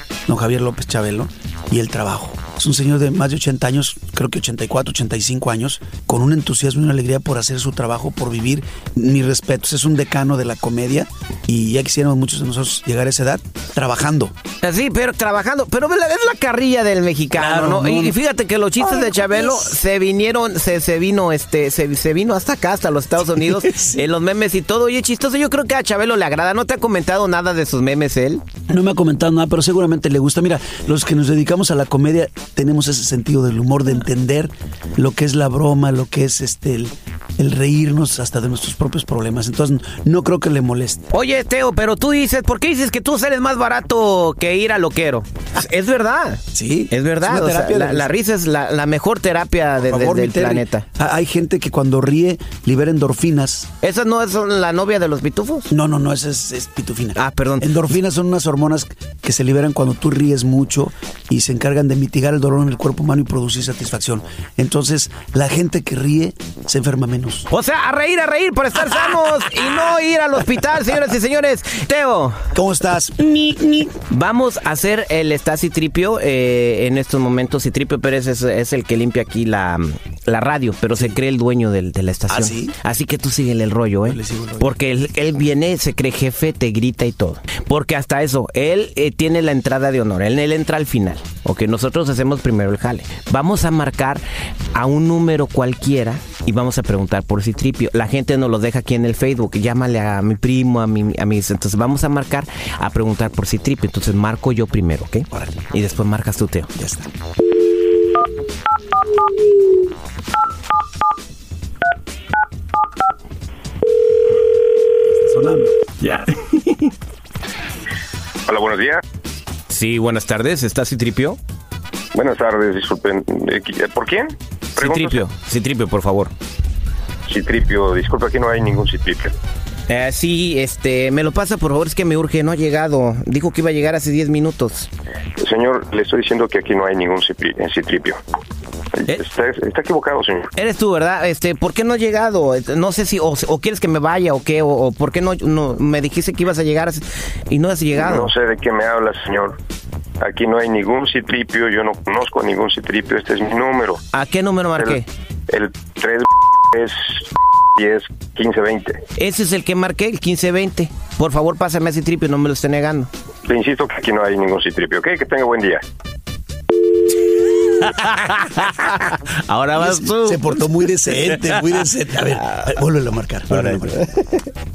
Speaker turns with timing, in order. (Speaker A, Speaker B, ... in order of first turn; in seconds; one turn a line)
Speaker A: 0.3-14.3
Speaker B: 14.6-28.4
Speaker A: 17.4-18.2
Speaker A: 18.8-19.7
Speaker A: 28.7-41.1
Speaker B: 41.1-50.9
Speaker A: 46.5-48.1
Speaker A: 49.8-53.7
Speaker B: 53.8-55.7
Speaker A: 55.7-67.5
Speaker B: 57.2-57.9
Speaker B: 67.5-72.4
Speaker A: 72.5-73.9
Speaker B: 73.9-106.7
Speaker A: 82.3-82.8
Speaker A: 84.0-84.7
Speaker A: 105.3-105.6
Speaker A: 106.8-107.1
Speaker A: 115.1-115.8
Speaker B: 116.0-116.8
Speaker C: 118.5-119.0
Speaker B: 119.7-121.4
Speaker C: 122.1-125.2
Speaker B: 124.8-126.3
Speaker C: 127.3-129.3
Speaker B: 129.9-134.9
Speaker C: 135.4-138.2
Speaker C: 139.0-140.5
Speaker B: 140.6-148.3
Speaker C: 148.0-149.6
Speaker C: 150.2-154.0
Speaker B: 154.1-155.1
Speaker C: 155.5-157.2
Speaker C: 157.8-159.0
Speaker B: 159.2-163.1
Speaker C: 163.5-165.8
Speaker B: 167.6-171.6
Speaker A: 169.8-174.0
Speaker B: 172.5-172.8
Speaker B: 173.5-174.4